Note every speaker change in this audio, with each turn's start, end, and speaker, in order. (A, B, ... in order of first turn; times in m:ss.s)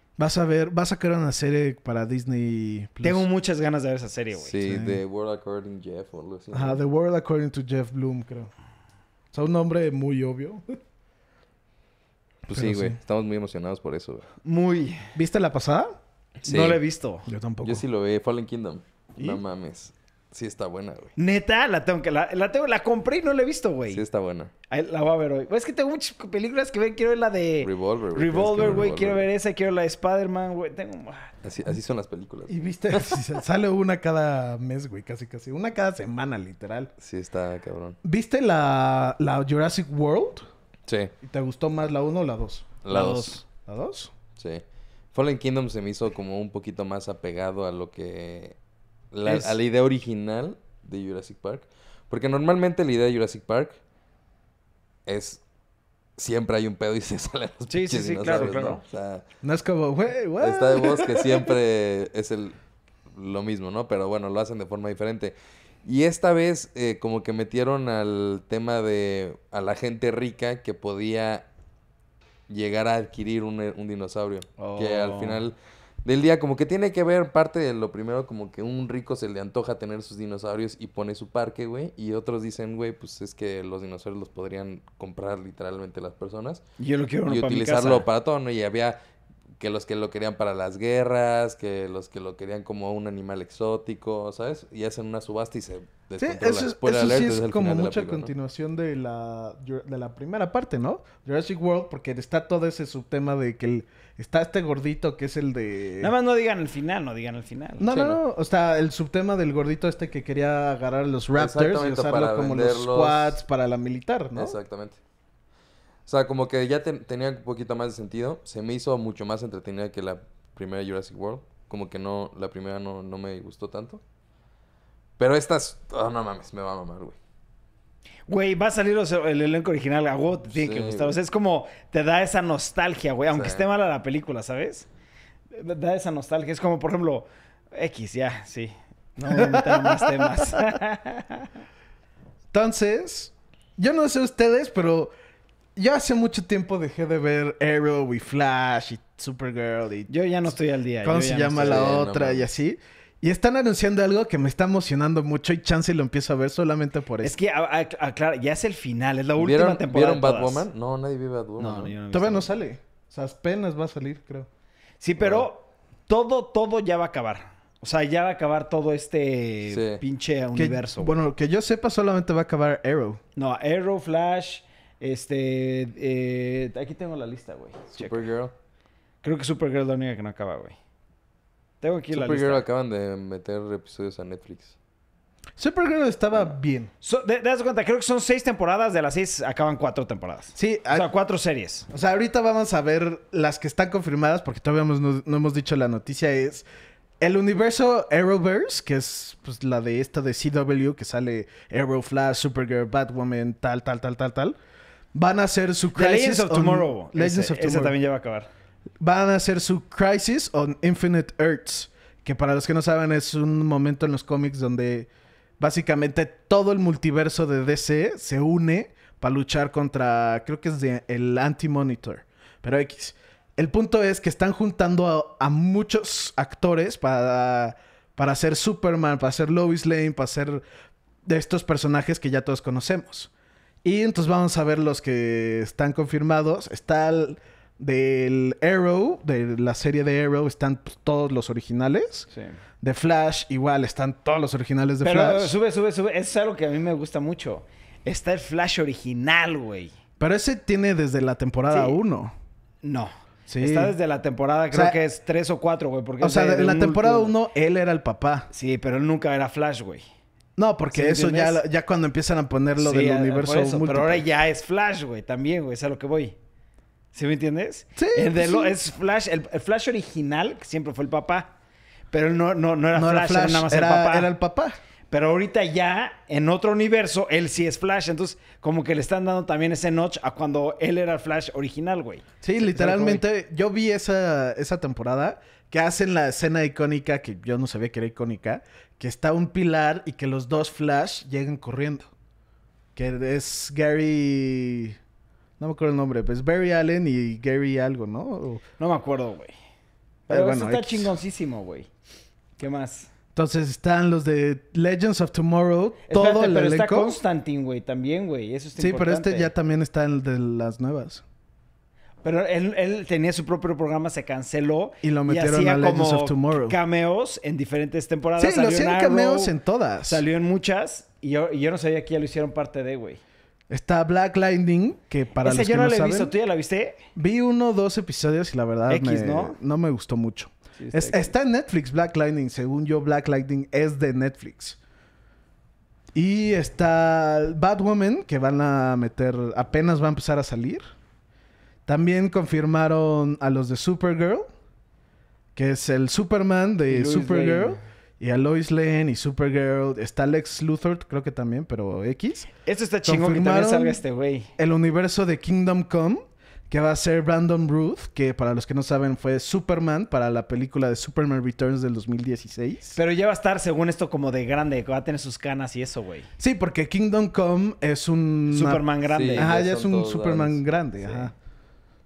0:00.2-0:03.3 A
0:03.0-0:04.6 B
0:04.4-0:06.8 C
0:04.6-0:05.0 A
0:06.5-0:08.5 A
0:09.3-0:10.8 A
0:12.5-0:14.3 C
0:12.5-0:13.0 A
0:14.4-0:15.1 B
0:15.2-0:16.0 A
0:16.4-0:16.8 C
0:16.4-0:17.3 B
0:17.3-0:17.8 A
0:17.6-0:21.1 C
0:21.2-0:24.0 B
0:23.9-0:24.5 C
0:24.7-0:31.3 B
0:27.6-0:29.3 C
0:31.4-0:33.2 C
0:32.5-0:36.9 A
0:37.0-0:38.0 C
0:38.0-0:40.5 A
0:40.9-0:41.1 C
0:41.2-0:42.8 A
0:42.8-0:43.4 C
0:42.9-0:43.4 B
0:43.7-0:44.1 A
0:44.4-0:44.6 C
0:45.1-0:48.6 C
0:49.1-0:53.8 C
0:49.2-0:49.6 B
0:55.1-0:55.4 C
0:56.2-0:59.2 C
0:57.7-0:58.8 B
0:59.4-1:01.6 A
1:00.4-1:02.6 C
1:03.2-1:11.5 C
1:12.5-1:26.6 C
1:14.6-1:15.4 B
1:26.8-1:28.1 B
1:27.3-1:29.0 C
1:29.6-1:38.3 C
1:36.2-1:46.1 A
1:46.0-1:47.8 B
1:47.8-1:54.6 A
1:47.9-1:48.2 C
1:51.4-1:53.4 C
1:54.4-1:55.0 C
1:56.1-2:04.0 C
2:05.2-2:07.2 C
2:08.3-2:14.9 B
2:10.5-2:11.2 C
2:13.3-2:13.6 C
2:15.5-2:21.5 B
2:19.3-2:20.6 A
2:22.5-2:25.1 A
2:25.8-2:30.5 A
2:30.1-2:32.0 B
2:31.0-2:37.4 A
2:31.6-2:32.5 C
2:37.2-2:40.7 B
2:39.4-2:41.9 C
2:41.6-2:42.6 B
2:42.1-2:44.5 A
2:45.0-2:51.1 B
2:45.2-2:45.5 C
2:49.7-2:50.0 C
2:50.6-2:53.2 A
2:53.4-2:58.3 B
2:57.9-2:58.5 C
2:59.2-3:00.8 B
3:01.8-3:02.6 B
3:02.1-3:04.8 C
3:05.6-3:06.9 A
3:07.0-3:11.9 B
3:10.6-3:11.1 A
3:11.9-3:16.6 A
3:17.2-3:24.6 A
3:25.1-3:28.0 A
3:26.0-3:28.5 B
3:29.0-3:50.6 A
3:51.2-3:53.3 A
3:53.8-4:02.3 A
4:02.3-4:02.6 B
4:02.8-4:05.6 A
4:05.0-4:09.9 B
4:10.2-4:12.4 A
4:11.7-4:12.0 B
4:12.8-4:17.3 B
4:13.5-4:13.9 A
4:14.7-4:15.0 A
4:16.2-4:18.5 A
4:18.5-4:20.0 B
4:20.6-4:24.2 A
4:20.9-4:21.6 B
4:22.8-4:26.4 B
4:27.1-4:31.5 B
4:28.0-4:28.8 A
4:32.1-4:34.3 B
4:32.9-4:34.8 A
4:35.1-4:43.2 B
4:42.4-4:52.1 A
4:53.0-4:55.0 A
4:55.6-4:58.6 A
4:58.8-4:59.5 B
5:00.3-5:01.9 B
5:00.3-5:01.1 A
5:02.6-5:03.1 B
5:03.4-5:07.2 A
5:06.1-5:09.5 B
5:08.8-5:11.2 A
5:12.2-5:19.5 B
5:15.0-5:16.8 A
5:18.4-5:20.2 A
5:20.1-5:23.2 B
5:23.7-5:26.3 A
5:25.4-5:27.0 B
5:27.2-5:34.8 A
5:28.9-5:29.6 B
5:30.8-5:31.3 B
5:36.1-5:40.8 A
5:41.9-5:44.5 A
5:45.6-5:52.5 A
5:46.9-5:47.8 B
5:52.6-5:54.5 B
5:53.0-5:54.0 A
5:54.6-6:03.0 A
6:03.0-6:06.3 B
6:06.4-6:08.8 A
6:08.5-6:09.5 B
6:09.1-6:10.6 C
6:09.4-6:11.3 A